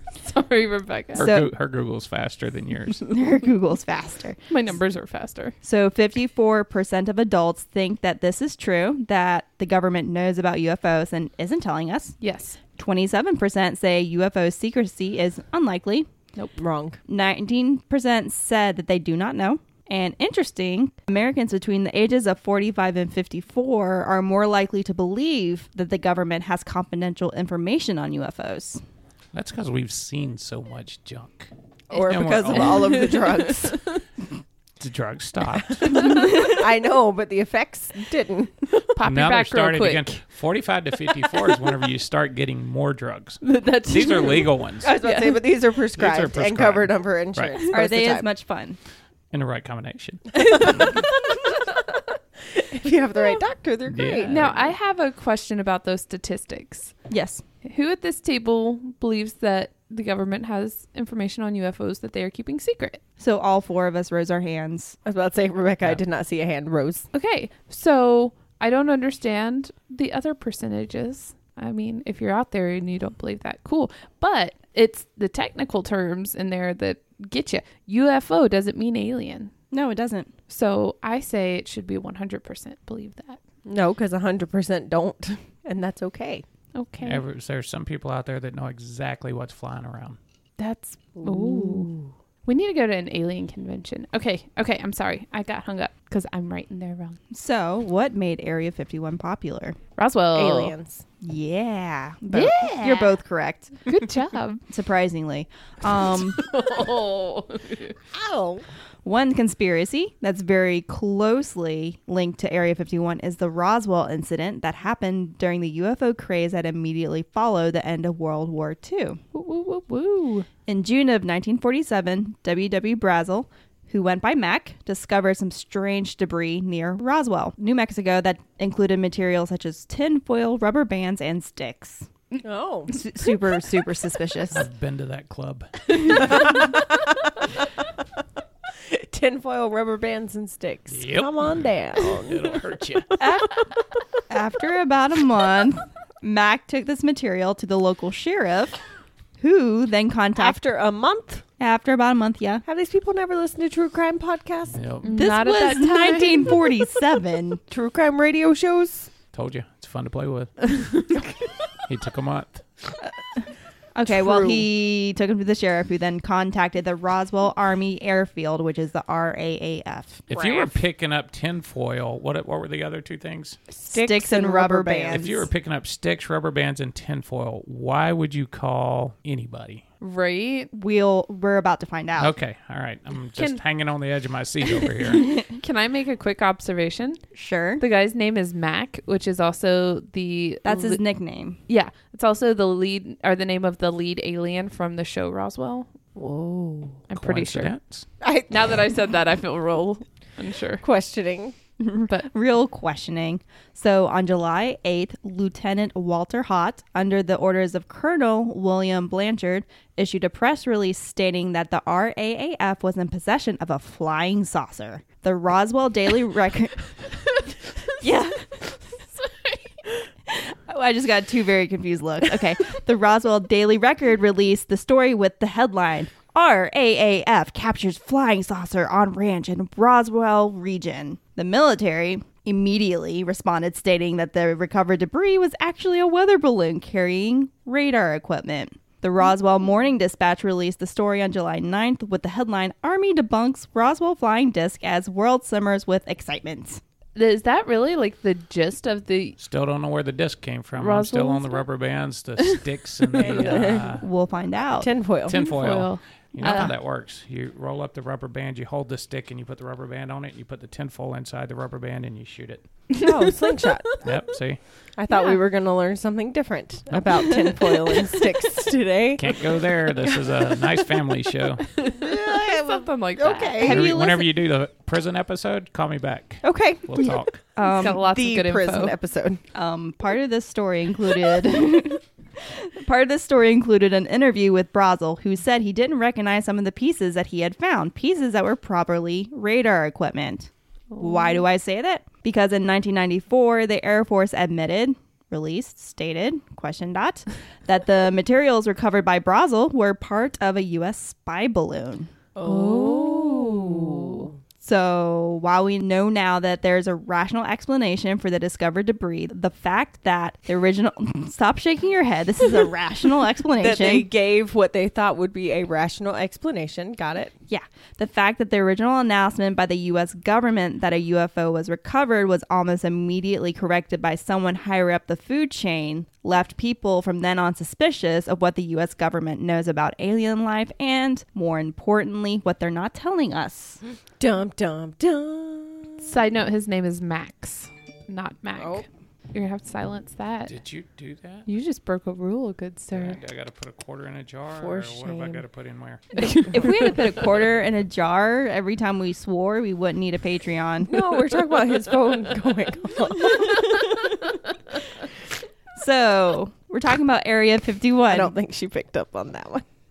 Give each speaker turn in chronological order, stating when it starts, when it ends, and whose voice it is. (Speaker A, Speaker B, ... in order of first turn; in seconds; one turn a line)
Speaker A: 0.2-1.3
Speaker B: 1.2-1.5
Speaker C: 1.2-3.1
Speaker B: 3.0-4.4
Speaker A: 4.5-5.5
Speaker B: 5.6-12.2
Speaker A: 12.2-12.6
Speaker B: 12.8-16.1
Speaker D: 16.6-17.0
Speaker B: 17.1-28.8
Speaker C: 29.3-31.5
Speaker D: 31.9-33.8
Speaker A: 31.9-33.8
Speaker C: 32.1-33.1
Speaker C: 34.8-36.3
Speaker D: 36.0-38.5
Speaker B: 36.1-36.5
Speaker A: 38.8-40.2
Speaker C: 39.0-44.9
Speaker A: 43.4-44.5
Speaker D: 44.8-48.3
Speaker A: 45.0-45.4
Speaker C: 46.0-47.6
Speaker B: 47.7-48.8
Speaker C: 49.3-50.9
Speaker D: 52.5-54.5
Speaker C: 53.9-54.7
Speaker A: 54.3-56.9
Speaker B: 57.1-57.4
Speaker A: 57.6-63.0
Speaker B: 63.2-65.0
Speaker D: 65.0-67.1
Speaker A: 67.1-79.5
Speaker B: 79.7-80.3
Speaker A: 80.5-83.4
Speaker D: 83.7-86.5
Speaker A: 86.8-87.2
Speaker C: 87.0-90.2
Speaker A: 90.6-91.9
Speaker D: 91.2-92.1
Speaker A: 92.5-97.2
Speaker B: 97.3-99.8
Speaker A: 100.0-100.8
Speaker D: 100.3-101.0
Speaker B: 101.2-103.8
Speaker A: 102.3-103.2
Speaker A: 103.8-104.6
Speaker B: 104.7-106.4
Speaker A: 106.1-108.0
Speaker D: 108.1-108.7
Speaker B: 109.0-119.2
Speaker A: 119.3-120.5
Speaker B: 120.7-132.1
Speaker D: 132.4-133.0
Speaker B: 132.9-134.7
Speaker C: 134.5-136.5
Speaker D: 136.1-137.5
Speaker D: 138.8-142.6
Speaker C: 140.9-143.2
Speaker B: 143.2-143.7
Speaker B: 144.3-148.8
Speaker B: 149.4-150.6
Speaker D: 150.4-151.4
Speaker B: 151.6-152.6
Speaker D: 152.7-154.8
Speaker C: 154.7-155.2
Speaker A: 155.0-156.6
Speaker B: 155.2-157.6
Speaker D: 157.7-159.1
Speaker C: 159.3-161.1
Speaker C: 161.9-162.7
Speaker B: 163.9-170.3
Speaker D: 164.1-164.7
Speaker C: 170.3-173.6
Speaker D: 173.8-175.4
Speaker B: 173.9-175.4
Speaker C: 175.1-179.8
Speaker A: 180.0-180.7
Speaker B: 180.7-182.3
Speaker C: 182.2-185.4
Speaker A: 183.4-183.6
Speaker A: 184.8-187.2
Speaker B: 187.3-187.8
Speaker A: 187.8-191.0
Speaker B: 190.6-191.6
Speaker A: 191.7-195.9
Speaker D: 196.2-197.0
Speaker A: 197.1-197.7
Speaker C: 197.2-198.1
Speaker D: 198.2-198.8
Speaker A: 198.5-200.8
Speaker D: 200.8-201.6
Speaker B: 201.8-216.9
Speaker B: 218.0-218.6
Speaker A: 219.2-219.6
Speaker B: 220.3-246.8
Speaker A: 247.2-249.4
Speaker C: 249.4-254.1
Speaker A: 250.8-251.6
Speaker D: 253.2-254.0
Speaker B: 253.5-254.9
Speaker D: 254.8-255.4
Speaker C: 255.3-262.6
Speaker A: 255.3-256.7
Speaker D: 263.0-264.0
Speaker A: 263.0-263.3
Speaker C: 264.0-264.7
Speaker D: 264.9-269.5
Speaker A: 265.1-265.4
Speaker C: 266.9-267.5
Speaker C: 269.2-271.7
Speaker A: 271.8-274.1
Speaker D: 271.9-274.0
Speaker C: 273.6-277.4
Speaker B: 273.7-274.1
Speaker D: 276.4-279.4
Speaker B: 277.6-278.0
Speaker A: 277.6-279.0
Speaker B: 279.5-302.1
Speaker A: 290.9-291.4
Speaker D: 302.4-304.3
Speaker A: 302.4-304.1
Speaker B: 304.6-314.1
Speaker D: 313.6-317.3
Speaker B: 317.5-333.8
Speaker D: 334.2-336.1
Speaker A: 336.0-340.6
Speaker D: 338.6-338.9
Speaker C: 340.5-341.5
Speaker A: 341.5-343.2
Speaker C: 342.9-346.1
Speaker D: 344.5-345.4
Speaker A: 346.2-346.7
Speaker B: 346.5-351.1
Speaker D: 350.9-353.8
Speaker B: 355.8-358.3
Speaker D: 358.1-359.6